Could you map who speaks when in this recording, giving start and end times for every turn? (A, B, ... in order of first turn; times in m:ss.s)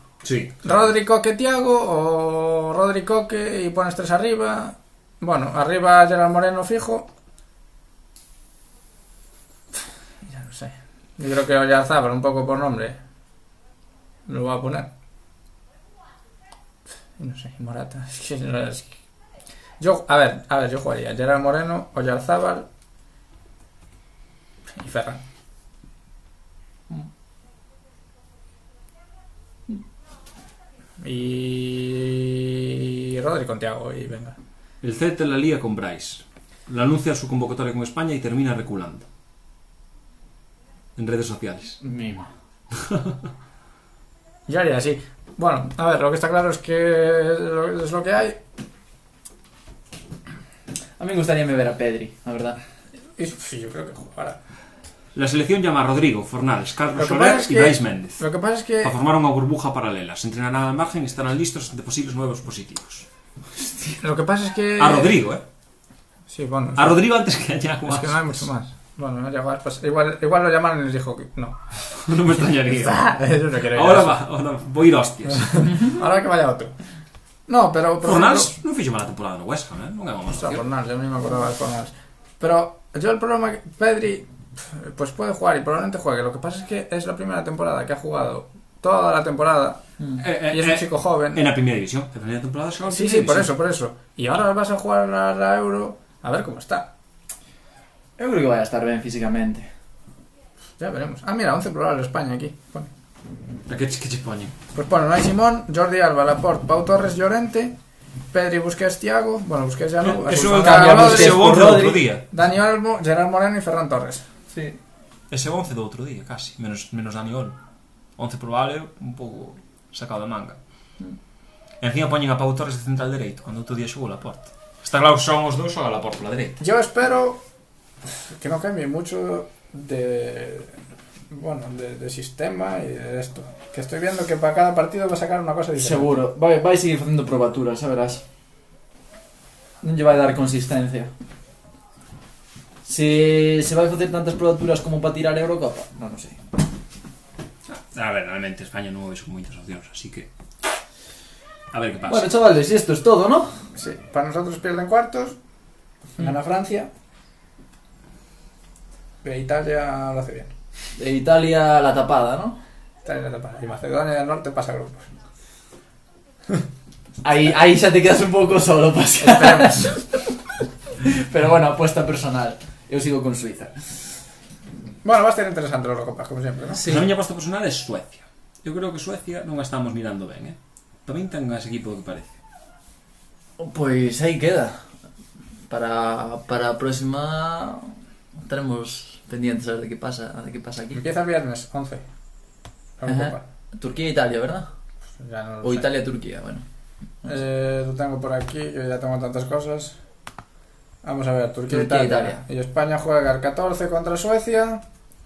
0:00.2-0:00.6 A
0:00.6-0:07.1 B
0:10.3-0:13.0 B
0:14.3-0:14.9 B
0:17.2-0:18.9 B
0:19.8-0:22.7 B
0:24.7-0:25.2 B
0:31.0-0:34.4 B
0:34.8-0:39.1 A
0:41.0-0:41.8 A
0:41.8-0:42.3 C
0:42.7-0:43.2 A
0:44.5-0:48.4 B
0:51.0-0:52.6 C
0:53.2-0:54.4 B
0:55.1-0:58.2 A
0:57.0-0:58.9 B
0:58.8-1:03.1 A
1:04.0-1:05.2 B
1:04.8-1:05.4 A
1:06.3-1:07.0 B
1:06.8-1:08.4 A
1:07.8-1:14.2 B
1:11.9-1:15.8 A
1:15.3-1:16.7 B
1:17.5-1:18.5 B
1:18.0-1:20.6 A
1:20.3-1:29.8 B
1:30.2-1:33.5 A
1:30.4-1:31.4 B
1:32.9-1:36.9 B
1:38.2-1:39.7 C
1:40.8-1:42.9 B
1:43.7-1:44.5 A
1:44.8-1:47.8 B
1:48.3-1:54.2 B
1:50.0-1:52.2 A
1:50.4-1:52.0 C
1:54.5-1:54.8 C
1:55.3-1:57.6 A
1:58.2-2:00.6 A
2:01.8-2:06.6 A
2:06.6-2:07.4 B
2:08.2-2:10.7 B
2:11.3-2:16.2 B
2:15.8-2:18.2 C
2:19.8-2:21.1 C
2:22.8-2:26.4 C
2:27.7-2:30.3 A
2:31.7-2:32.3 A
2:32.1-2:33.6 C
2:33.8-2:35.4 B
2:36.2-2:36.9 B
2:39.2-2:40.5 B
2:41.0-2:42.6 C
2:43.0-2:45.1 B
2:47.2-2:50.3 C
2:49.2-2:49.9 B
2:51.0-2:53.9 C
2:55.0-2:56.9 B
2:56.7-2:57.0 C
2:56.8-3:02.4 A
3:03.6-3:04.8 C
3:05.7-3:11.0 C
3:11.0-3:12.0 B
3:13.0-3:13.4 B
3:13.1-3:14.7 C
3:15.2-3:15.9 B
3:15.6-3:16.6 C
3:17.2-3:20.0 B
3:21.0-3:24.8 B
3:21.7-3:22.4 C